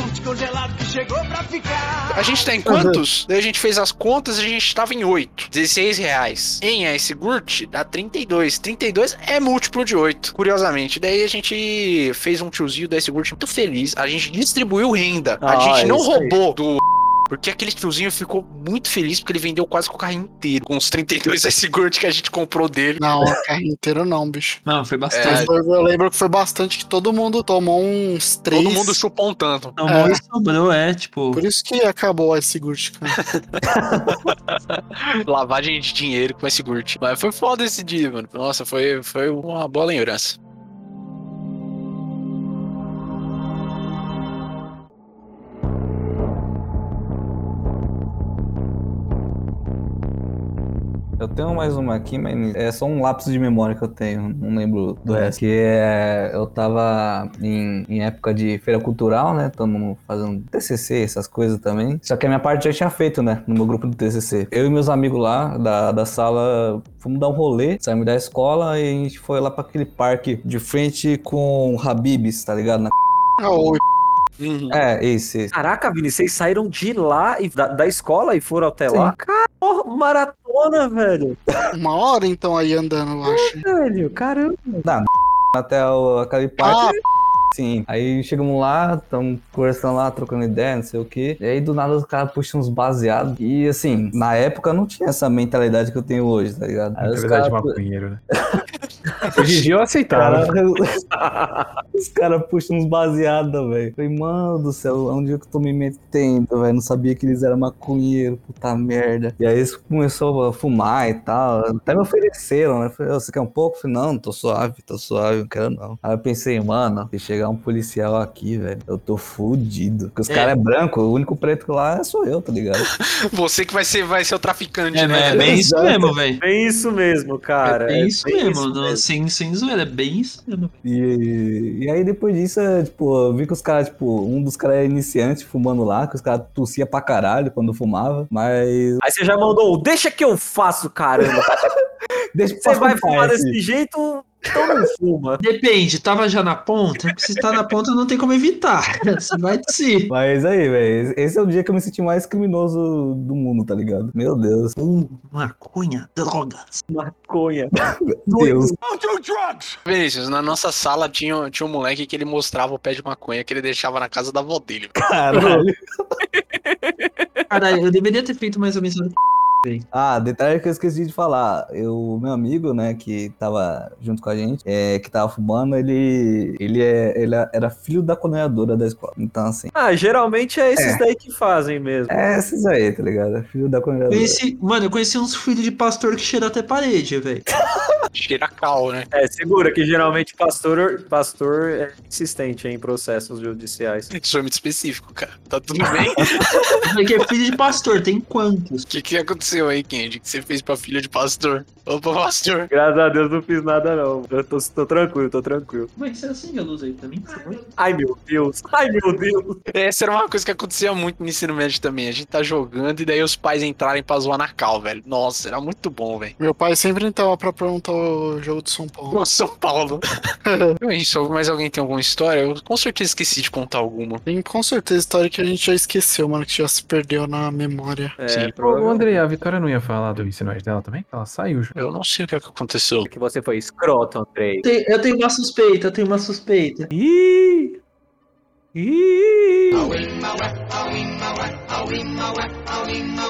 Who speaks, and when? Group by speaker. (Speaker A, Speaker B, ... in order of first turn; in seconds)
Speaker A: 2.1-23.0, 25.1-25.5, 28.5-29.8, 33.1-33.6, 34.3-40.4, 74.4-74.8, 122.9-125.5, 159.8-165.0, 188.1-189.1, 194.1-196.9, 198.9-202.7, 209.7-216.3, 219.1-220.0, 220.8-224.2, 231.8-233.1
Speaker B: 2.7-3.0, 23.0-24.6, 25.2-29.0, 29.9-30.2, 31.3-33.2, 73.4-73.8, 81.7-83.6, 86.6-87.0, 216.4-219.2, 220.5-220.7, 224.2-228.2
Speaker C: 15.4-16.3, 75.5-81.4, 83.3-84.8, 101.2-101.7, 126.4-129.0, 139.0-141.6, 142.6-145.4, 156.9-157.7, 166.3-167.4, 179.7-182.2, 189.1-194.1, 202.7-205.9, 207.3-209.6, 228.2-229.2, 233.1-234.6, 236.9-237.8, 238.7-240.0
Speaker D: 24.6-25.5, 29.8-31.4, 120.3-120.5, 124.9-126.4, 127.6-130.8, 145.4-150.1, 154.8-156.8, 158.4-158.7, 167.5-169.8, 184.1-187.4, 196.8-198.8, 205.9-207.7, 234.6-236.9
Speaker E: 51.2-72.9, 74.7-75.5, 78.9-79.1, 84.8-87.0, 87.5-97.8, 99.3-100.9, 101.9-122.9, 125.3-126.2, 130.8-139.0, 142.3-143.6, 150.1-154.8, 158.0-158.7, 165.0-165.8, 169.9-179.7, 180.8-181.0, 182.1-184.4
Speaker F: 97.0-98.2, 99.3-100.5, 228.6-231.8